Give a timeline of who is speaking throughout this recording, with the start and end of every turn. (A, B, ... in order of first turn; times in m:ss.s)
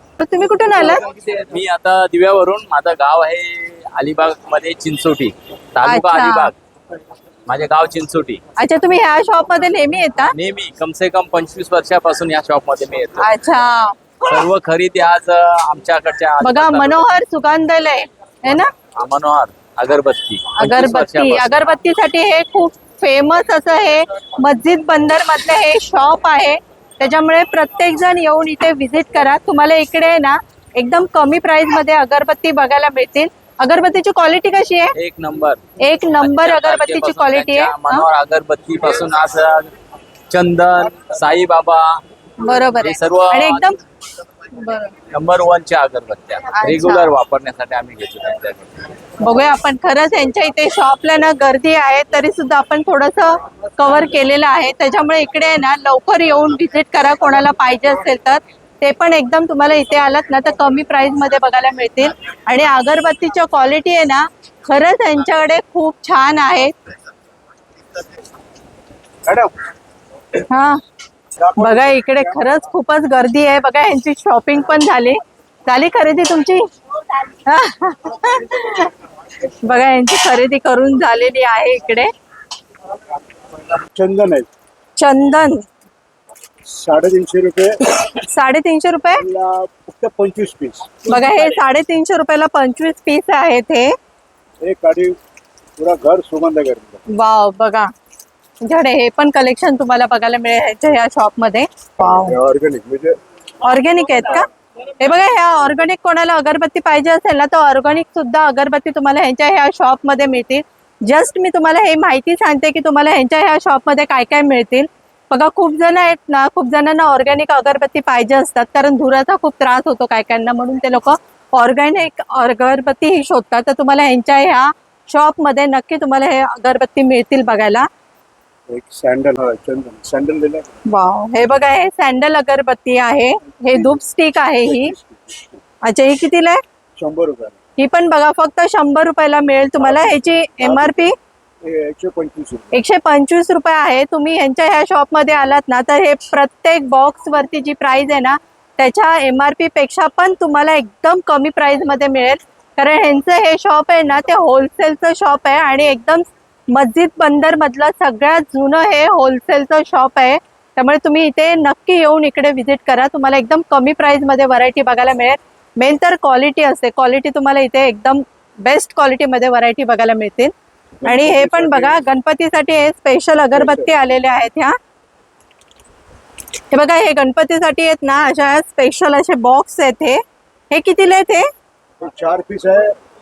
0:00.2-0:01.0 A
0:01.1-0:06.6 B
0:05.8-0:06.5 A
0:07.5-0:08.4 B
0:08.6-0:10.3 A
0:10.3-0:13.3 B
0:13.2-0:14.0 A
0:14.3-0:17.1 B
0:16.4-0:18.7 A
0:19.0-0:21.6 B
0:20.6-0:34.9 A
0:35.0-0:35.6 B
0:35.8-0:38.1 A
0:36.2-0:39.7 B
0:40.3-0:42.0 B
0:42.4-0:43.8 A
0:42.8-0:43.7 B
0:44.6-0:44.9 A
0:45.1-0:48.8 B
0:46.5-0:47.1 A
0:49.2-1:06.8 A
1:09.2-1:09.5 C
1:10.5-1:10.8 A
1:11.4-1:12.8 C
1:11.6-1:16.7 A
1:17.5-1:18.9 A
1:19.6-1:22.1 A
1:23.9-1:24.5 C
1:25.0-1:25.7 A
1:26.6-1:27.8 C
1:28.0-1:29.2 A
1:29.2-1:31.0 C
1:31.1-1:33.9 A
1:34.6-1:35.2 C
1:35.8-1:37.0 C
1:37.1-1:37.9 A
1:38.6-1:42.4 A
1:42.0-1:43.2 C
1:43.6-1:44.5 A
1:45.0-2:07.9 A
2:08.7-2:10.7 C
2:10.9-2:14.9 A
2:13.5-2:14.0 C
2:14.6-2:15.6 C
2:15.8-2:16.6 A
2:17.0-2:17.6 C
2:17.8-2:21.2 A
2:19.8-2:21.1 C
2:21.6-2:22.8 C
2:22.7-2:50.5 A
2:51.0-2:52.0 C
2:51.0-2:54.8 A
2:53.5-2:53.9 C
2:56.7-3:01.5 A
3:02.0-3:03.0 C